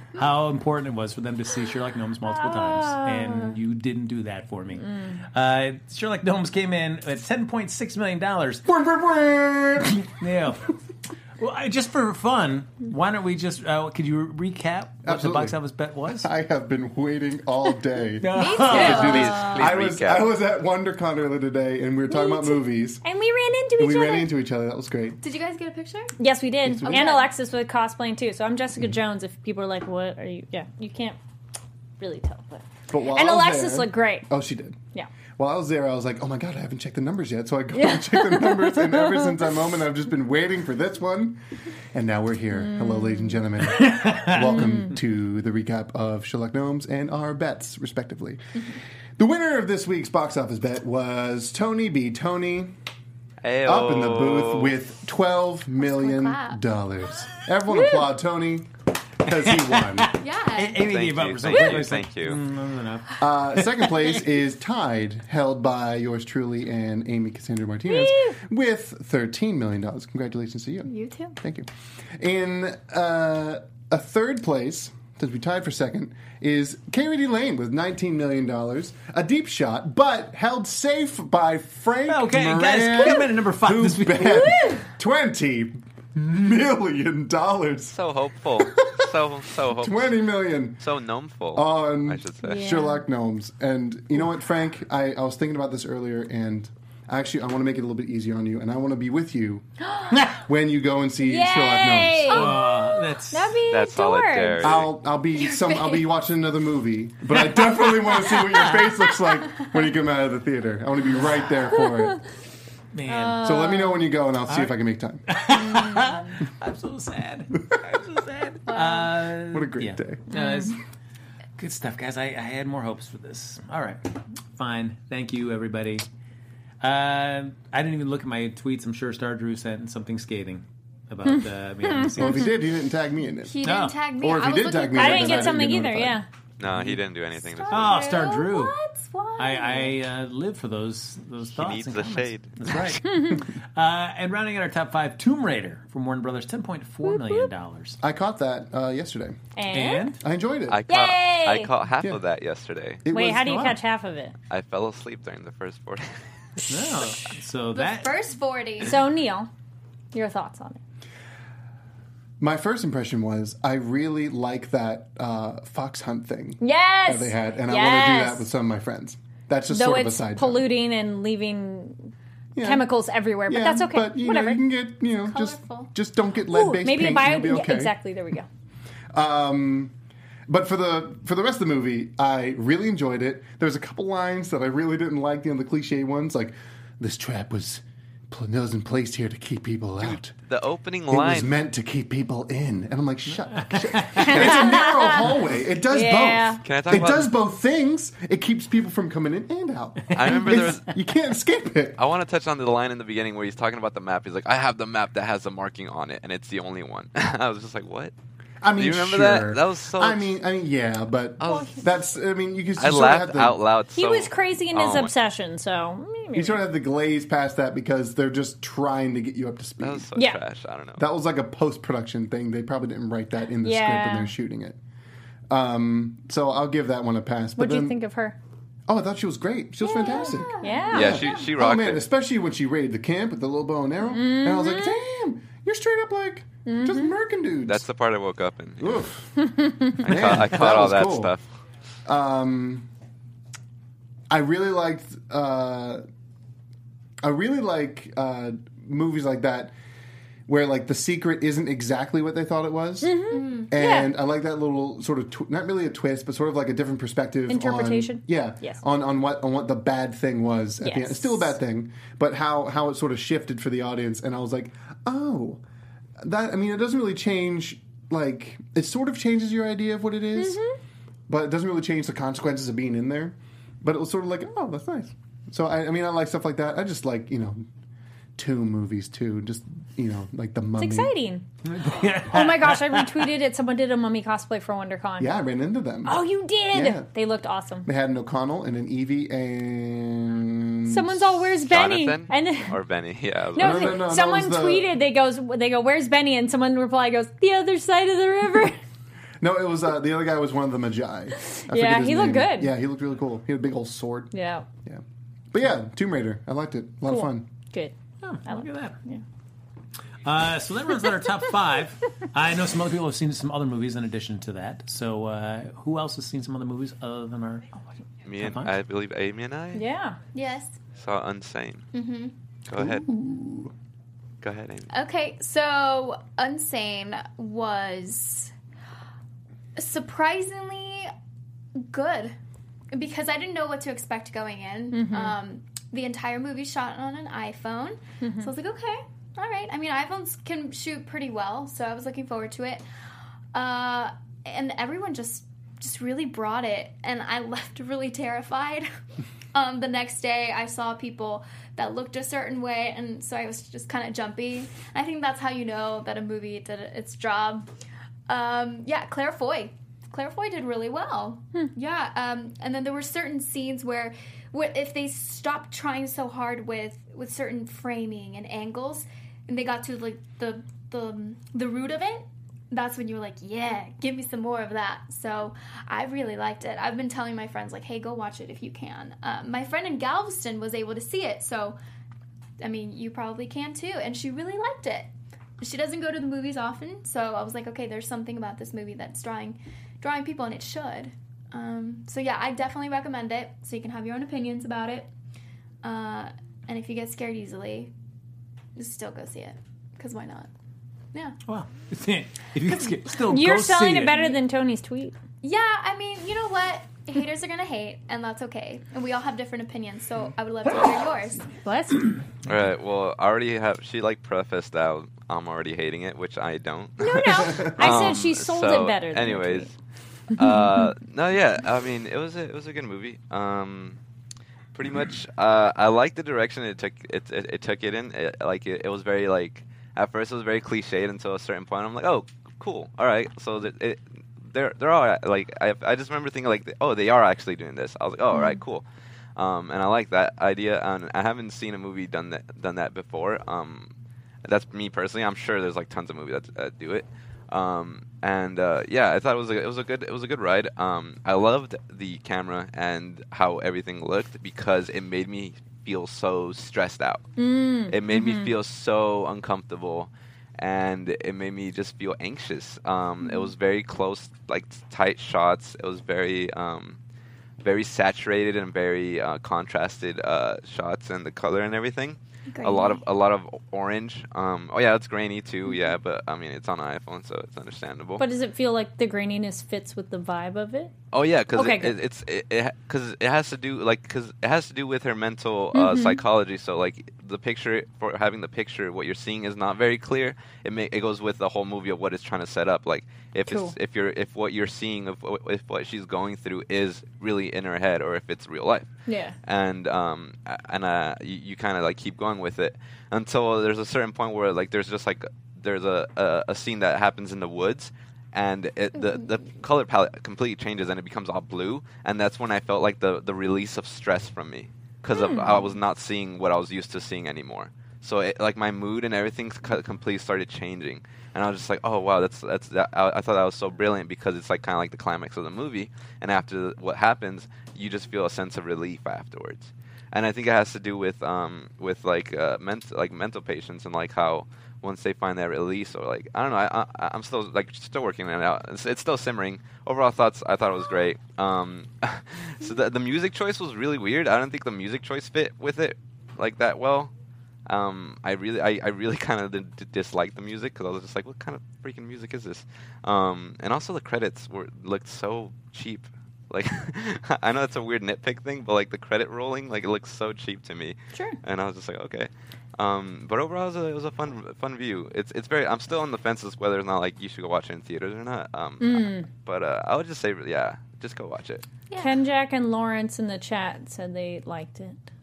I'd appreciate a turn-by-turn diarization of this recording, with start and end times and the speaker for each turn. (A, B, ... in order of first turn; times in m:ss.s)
0:00.1-0:08.8 A
0:02.3-0:03.6 B
0:08.7-0:10.0 C
0:09.9-0:10.8 A
0:11.4-0:16.3 A
0:15.0-0:15.6 C
0:16.1-0:23.0 C
0:18.2-0:19.2 A
0:18.3-0:19.5 D
0:18.7-0:20.3 E
0:19.3-0:19.6 B
0:22.1-0:24.3 B
0:23.8-0:25.2 C
0:25.2-0:26.2 D
0:26.2-0:31.2 B
0:26.6-0:27.2 C
0:26.8-0:27.3 D
0:32.0-0:34.3 B
0:32.9-0:34.8 C
0:35.4-0:41.4 C
0:37.7-0:39.4 B
0:41.9-0:48.4 C
0:42.5-0:43.4 B
0:43.7-0:44.5 A
0:44.4-0:44.9 B
0:49.2-0:52.7 C
0:53.4-0:54.8 E
0:53.6-0:58.7 C
0:55.8-0:56.6 D
0:57.7-0:58.1 B
0:59.2-1:00.1 C
0:59.3-1:03.9 A
1:00.2-1:00.8 D
1:00.8-1:02.4 E
1:03.2-1:28.0 C
1:07.9-1:08.4 B
1:10.9-1:11.4 D
1:22.1-1:24.5 A
1:24.4-1:24.9 B
1:27.9-1:30.2 E
1:28.6-1:29.1 C
1:29.7-1:30.8 C
1:30.8-1:32.7 E
1:31.5-1:39.6 C
1:32.4-1:33.0 B
1:40.3-1:42.5 C
1:41.2-1:44.8 B
1:42.3-1:43.6 A
1:43.7-1:44.9 E
1:44.6-1:52.2 C
1:45.4-1:46.1 D
1:51.8-1:52.2 B
1:52.9-1:53.5 A
1:53.1-1:54.1 B
1:53.4-1:55.2 C
1:54.5-1:54.7 A
1:55.3-2:00.8 A
1:55.7-1:56.3 B
1:58.7-1:59.1 D
1:59.5-2:00.3 C
2:00.3-2:00.7 B
2:01.6-2:06.0 A
2:06.8-2:12.5 A
2:11.8-2:12.4 B
2:12.1-2:13.6 C
2:13.4-2:15.7 D
2:13.6-2:14.0 A
2:14.2-2:16.2 C
2:14.9-2:16.3 B
2:16.6-2:18.1 E
2:16.7-2:17.0 A
2:17.4-2:20.0 D
2:17.7-2:18.7 A
2:19.4-2:28.0 A
2:21.5-2:23.0 E
2:23.0-2:23.5 B
2:27.0-2:27.5 B
2:28.0-2:29.4 C
2:29.6-2:30.2 B
2:29.7-2:30.2 A
2:30.2-2:30.8 C
2:30.7-2:33.0 E
2:30.9-2:31.7 B
2:33.0-2:33.8 C
2:33.1-2:34.3 B
2:33.4-2:33.7 A
2:34.5-2:36.2 E
2:36.7-2:38.1 A
2:37.7-2:39.0 D
2:38.8-2:39.5 B
2:40.1-2:40.8 B
2:42.4-2:50.7 C
2:46.6-2:48.4 B
2:49.7-2:52.1 B
2:52.5-2:52.9 C
2:52.6-2:54.6 B
2:53.4-2:58.0 C
2:55.2-2:55.9 D
2:56.5-2:58.5 B
2:59.1-2:59.9 C
3:00.5-3:10.3 C
3:10.0-3:11.6 E
3:11.1-3:22.0 C
3:13.3-3:14.5 A
3:14.2-3:15.3 B
3:15.9-3:16.6 B
3:16.6-3:17.3 E
3:20.0-3:20.7 A
3:20.1-3:20.9 E
3:22.0-3:28.1 E
3:28.6-3:33.6 C
3:28.8-3:30.4 E
3:31.4-3:31.8 E
3:31.4-3:31.9 B
3:32.8-3:35.1 E
3:33.9-3:36.6 B
3:36.3-3:40.1 C
3:39.8-3:41.0 E
3:41.0-3:44.8 C
3:43.6-3:44.3 B
3:45.5-3:48.0 C
3:47.6-3:48.4 B
3:48.9-3:57.8 C
3:49.8-3:51.4 B
3:49.9-3:51.4 D
3:50.9-3:52.1 E
3:54.1-3:55.0 B
3:56.6-3:57.1 B
3:57.6-3:59.0 E
3:58.8-4:01.3 C
4:00.0-4:01.4 E
4:02.0-4:02.8 C
4:04.3-4:06.0 C
4:07.2-4:09.7 C
4:10.5-4:13.2 C
4:13.0-4:14.1 B
4:13.3-4:13.7 D
4:13.7-4:25.6 C
4:17.5-4:18.8 B
4:20.8-4:21.5 B
4:26.2-4:30.6 C
4:30.4-4:30.8 B
4:31.3-4:37.6 C
4:38.4-4:41.1 C
4:40.8-4:41.4 B
4:41.6-4:43.3 A
4:42.3-4:45.3 B
4:45.2-4:47.1 C
4:46.0-4:47.9 B
4:47.8-4:51.4 C
4:50.9-4:52.8 B
4:51.7-4:54.0 E
4:53.5-4:58.8 B
4:53.6-4:54.9 C
4:59.4-5:04.3 C
5:01.4-5:02.7 B
5:04.3-5:04.6 B
5:04.8-5:07.5 C
5:07.0-5:07.9 B
5:08.2-5:09.0 A
5:08.4-5:09.2 B
5:10.2-5:17.7 A
5:18.2-5:19.8 E
5:18.4-5:18.7 A
5:19.7-5:20.2 B
5:20.3-5:20.8 D
5:20.9-5:21.9 E
5:21.9-5:22.3 D
5:22.7-5:23.0 E
5:22.7-5:23.7 C
5:24.4-5:24.9 E
5:24.9-5:28.5 D
5:29.8-5:31.1 D
5:31.7-5:32.4 D
5:32.9-5:42.8 D
5:34.9-5:35.4 B
5:38.2-5:38.5 B
5:43.5-5:48.9 D
5:49.5-5:57.7 D
5:58.3-6:21.8 D
6:22.6-6:35.1 D
6:35.8-6:37.9 D
6:38.8-6:40.5 D
6:41.4-6:44.3 A
6:43.2-6:45.1 B
6:45.4-6:51.5 D
6:51.5-6:52.2 B
6:52.4-6:59.8 E
6:57.0-6:59.7 B
7:00.3-7:04.0 E
7:04.7-7:18.8 E
7:19.4-7:23.9 E
7:24.4-7:37.3 E
7:37.4-7:38.5 B
7:37.9-7:47.0 E
7:47.6-7:58.2 E
7:52.5-7:53.0 D
7:58.2-8:00.9 B
8:01.1-8:18.9 E
8:01.5-8:02.0 B
8:05.7-8:06.2 B
8:13.4-8:13.7 B
8:19.1-8:19.4 B
8:19.4-9:07.1 E
8:35.1-8:35.7 B
9:07.7-9:31.6 E
9:28.8-9:29.3 B
9:31.9-9:32.2 D
9:32.0-9:35.0 B